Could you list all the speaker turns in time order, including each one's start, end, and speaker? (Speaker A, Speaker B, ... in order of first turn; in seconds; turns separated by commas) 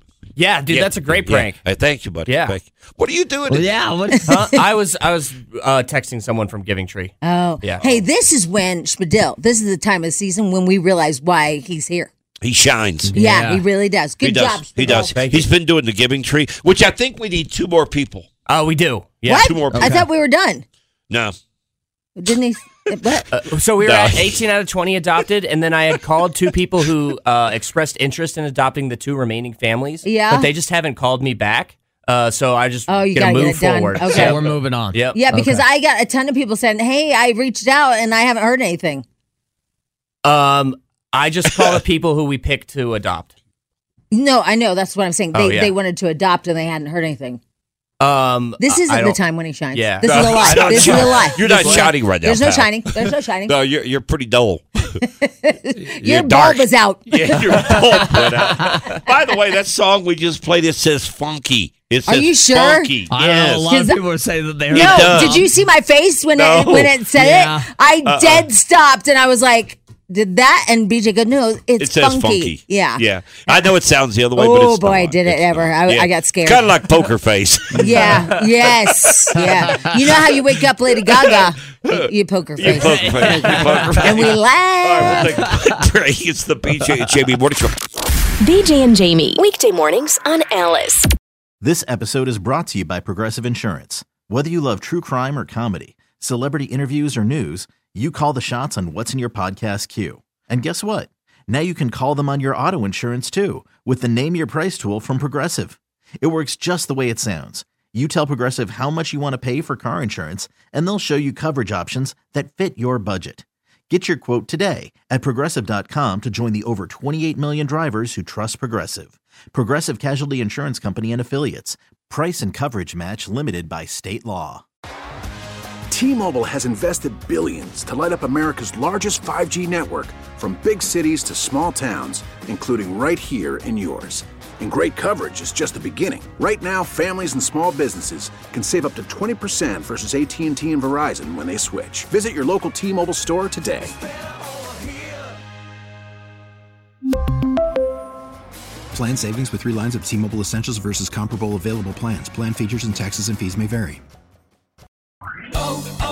Speaker A: 0.4-1.6, Speaker B: 0.7-3.8, Speaker A: 2.2-2.6, Speaker C: 3.5-4.4, Speaker D: 4.1-4.4, Speaker A: 4.3-8.0, Speaker D: 7.2-12.1, Speaker B: 12.4-13.2, Speaker C: 13.0-13.7, Speaker D: 13.2-15.2, Speaker B: 14.2-18.3, Speaker C: 14.9-15.5, Speaker A: 18.5-19.4, Speaker D: 19.3-20.6, Speaker B: 19.4-19.9, Speaker C: 19.7-20.1, Speaker D: 22.2-23.3, Speaker A: 23.3-35.2, Speaker B: 23.8-24.4, Speaker D: 30.0-30.5, Speaker D: 32.9-34.4, Speaker C: 34.2-35.6, Speaker D: 35.1-39.0, Speaker A: 40.2-43.3, Speaker D: 44.1-47.4, Speaker A: 45.3-45.7, Speaker A: 48.0-49.2, Speaker D: 48.6-53.6, Speaker A: 49.7-51.9, Speaker B: 50.0-55.0, Speaker D: 55.0-57.7, Speaker B: 56.0-63.7, Speaker C: 57.4-58.7, Speaker D: 62.1-63.0, Speaker C: 63.0-65.5, Speaker D: 63.7-64.1, Speaker D: 64.7-73.8, Speaker B: 64.7-65.4, Speaker B: 66.3-67.1, Speaker C: 67.1-67.7, Speaker B: 68.0-68.5, Speaker B: 71.8-77.9, Speaker D: 74.3-76.8, Speaker D: 77.7-83.2, Speaker C: 79.6-80.0, Speaker B: 81.2-87.8, Speaker A: 83.0-83.9, Speaker D: 84.0-85.1, Speaker E: 88.4-91.0, Speaker F: 91.6-124.7, Speaker G: 125.9-143.8, Speaker H: 148.9-154.0